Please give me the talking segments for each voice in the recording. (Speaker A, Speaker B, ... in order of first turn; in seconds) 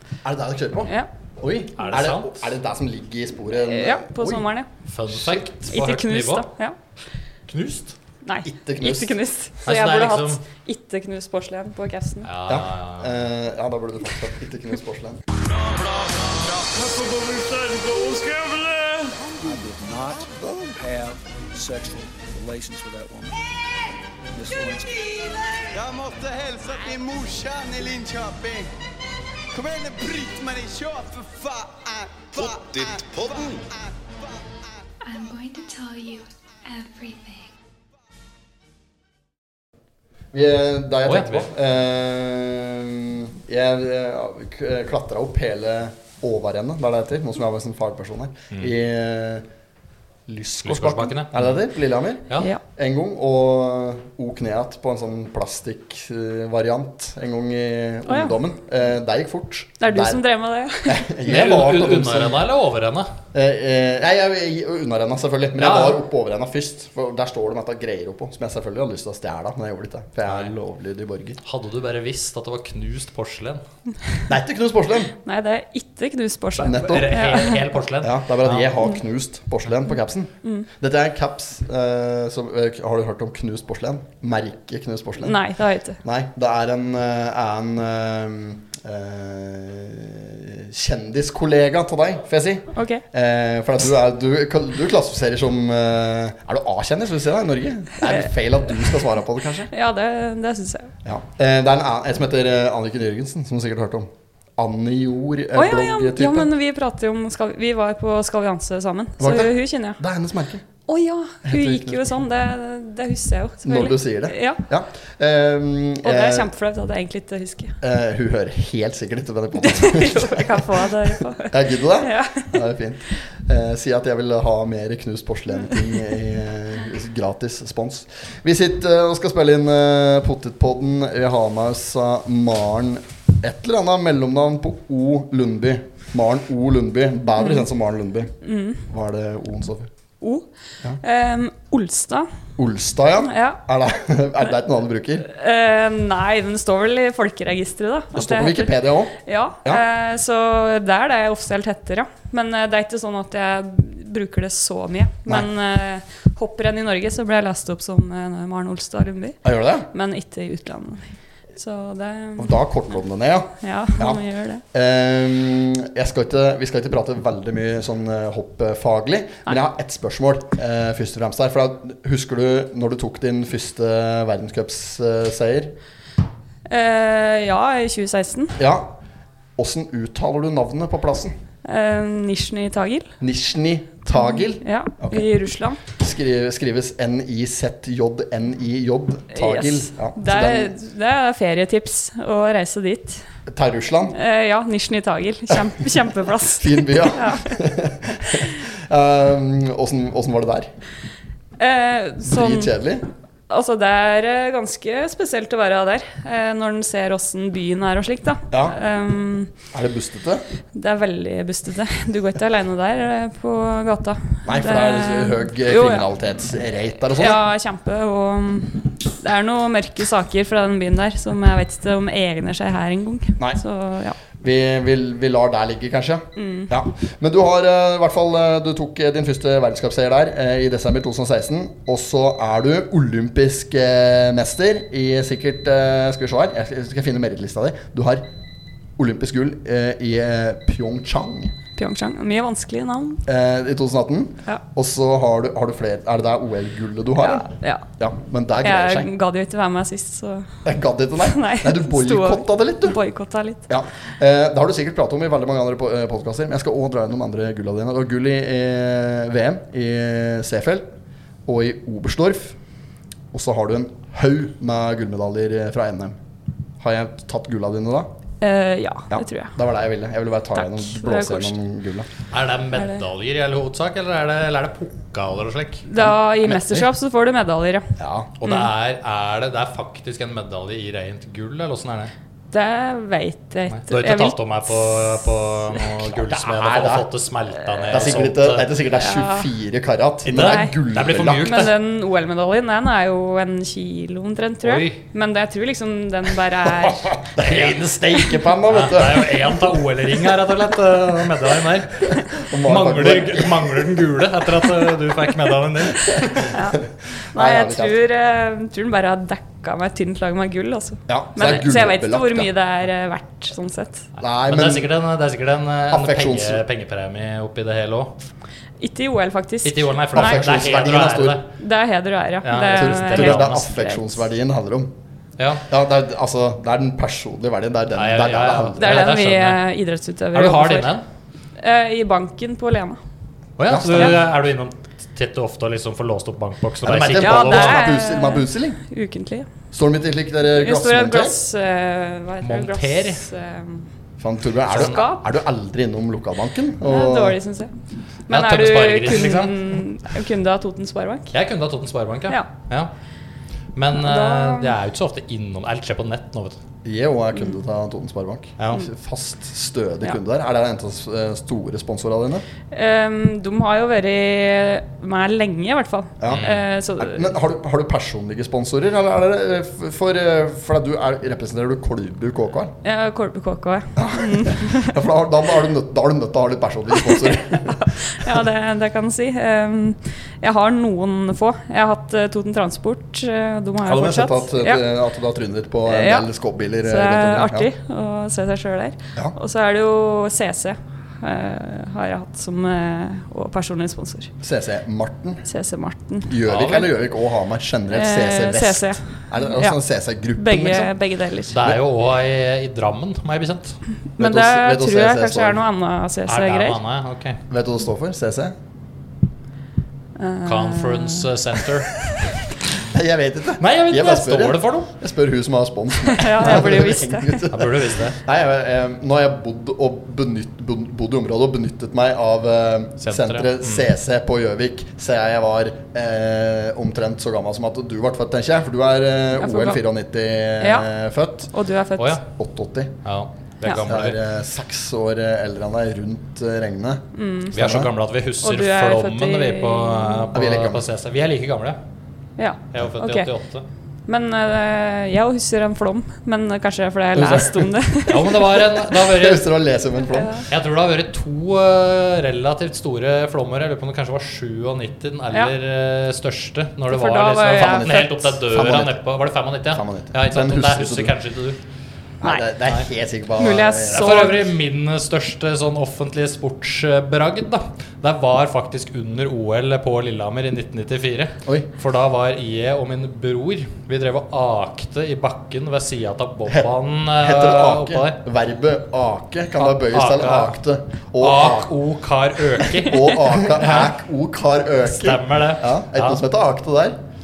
Speaker A: 0.2-4.5, 8.4-9.2, 12.5-15.2, 40.3-49.5, 50.3-60.2, 60.9-62.5, 63.3-71.4, 74.3-75.1, 76.6-77.2, 78.0-85.4, 86.0-99.7, 101.0-106.5, 109.2-110.6, 111.4-112.2, 113.6-116.5, 117.8-138.3, 138.9-139.9, 142.6-145.3, 148.1-149.1, 159.4-159.9, 162.4-175.7, 178.6-179.0, 179.6-181.3, 183.2-190.7, 193.5-194.1, 195.5-195.9, 196.5-200.7, 202.3-203.1, 208.5-208.8, 209.7-210.4, 214.4-217.4, 224.4-238.2, 239.0-241.5, 243.2-249.1, 250.6-253.0, 253.7-260.9, 261.5-262.6, 263.3-266.2, 266.8-268.1, 269.1-272.1, 276.0-276.9, 278.0-278.3, 286.0-287.1, 287.9-291.7, 296.6-299.8, 302.1-304.1, 307.3-308.0, 311.1-312.5, 314.2-314.9, 315.9-316.6, 320.1-321.4, 322.7-324.9, 325.7-329.1, 333.7-334.2, 336.8-338.8, 339.7-341.4, 344.2-347.4, 356.9-362.4, 366.2-372.7, 374.0-378.4, 383.8-387.7, 394.4-395.4, 396.3-400.9, 404.2-405.6, 407.5-408.6, 412.8-431.5, 432.3-433.0, 433.9-437.9, 440.3-440.9, 447.1-447.8, 448.6-450.3, 457.6-459.0, 459.7-461.1, 462.2-464.3, 476.5-481.7, 482.6-487.0
Speaker B: 1.8-2.4, 4.9-6.5, 7.5-8.0, 9.6-10.4, 12.2-13.1, 41.0-41.5, 50.6-51.5, 61.3-63.1, 65.6-66.0, 70.3-70.5, 71.4-73.6, 76.7-78.7, 272.3-275.9, 278.4-282.1, 283.7-288.7, 290.2-291.8, 294.6-295.0, 297.4-297.8, 298.7-306.5, 314.2-318.1, 319.6-321.4, 322.4-323.6, 325.4-325.7, 327.9-329.6, 330.3-331.0, 333.6-337.9, 342.4-343.2, 344.7-345.0, 348.3-349.6, 351.3-352.9, 353.8-356.6, 358.6-358.9, 366.3-366.6, 396.5-396.9, 401.5-403.8, 406.3-407.4, 410.4-411.9, 413.6-414.9, 417.5-418.2, 423.0-423.9, 432.0-432.2, 433.1-434.2, 437.5-441.8, 442.7-443.6, 448.1-449.5, 450.5-461.6, 463.9-478.2, 479.6-480.6, 481.2-483.9, 484.8-486.2
Speaker C: 3.5-4.7, 5.7-6.8, 8.2-12.3, 58.1-58.4, 59.8-61.0, 75.2-77.7, 85.2-86.0, 92.7-93.0, 99.7-100.9, 105.5-110.0, 110.9-114.6, 116.0-117.8, 119.6-122.6, 137.4-137.7, 138.4-138.8, 140.2-140.5, 141.0-142.3, 143.2-143.6, 145.3-162.6, 163.6-164.6, 176.7-178.6, 181.6-183.1, 184.1-185.8, 189.3-193.2, 194.1-197.6, 201.6-202.8, 203.5-209.5, 210.7-216.1, 217.1-224.2, 226.4-226.7, 241.8-243.2, 247.2-247.8, 248.6-250.5, 251.2-253.7, 268.4-269.5, 270.6-271.5, 272.7-273.0, 275.9-277.9, 278.4-278.7, 282.5-285.1, 289.0-289.5, 290.3-290.8, 291.4-297.1, 306.5-306.8, 307.3-314.1, 318.8-320.4, 321.6-324.2, 328.8-331.0, 331.6-333.0, 337.1-339.5, 340.5-343.9, 344.7-345.2, 346.8-347.7, 348.3-351.3, 353.9-354.8, 362.7-367.3, 372.8-374.9, 376.9-384.9, 385.9-386.3, 386.8-394.3, 395.5-396.4, 397.9-399.8, 400.4-401.6, 404.2-406.8, 410.2-411.2, 416.1-417.5, 429.4-429.8, 430.6-430.9, 431.5-432.2, 437.1-437.6, 438.4-440.3, 442.4-443.3, 444.1-448.5, 450.1-450.4, 456.9-458.1, 463.4-464.5
Speaker D: 15.6-19.1, 25.6-28.7, 29.5-34.4
Speaker E: 19.4-23.4, 24.3-25.0
Speaker F: 35.0-37.5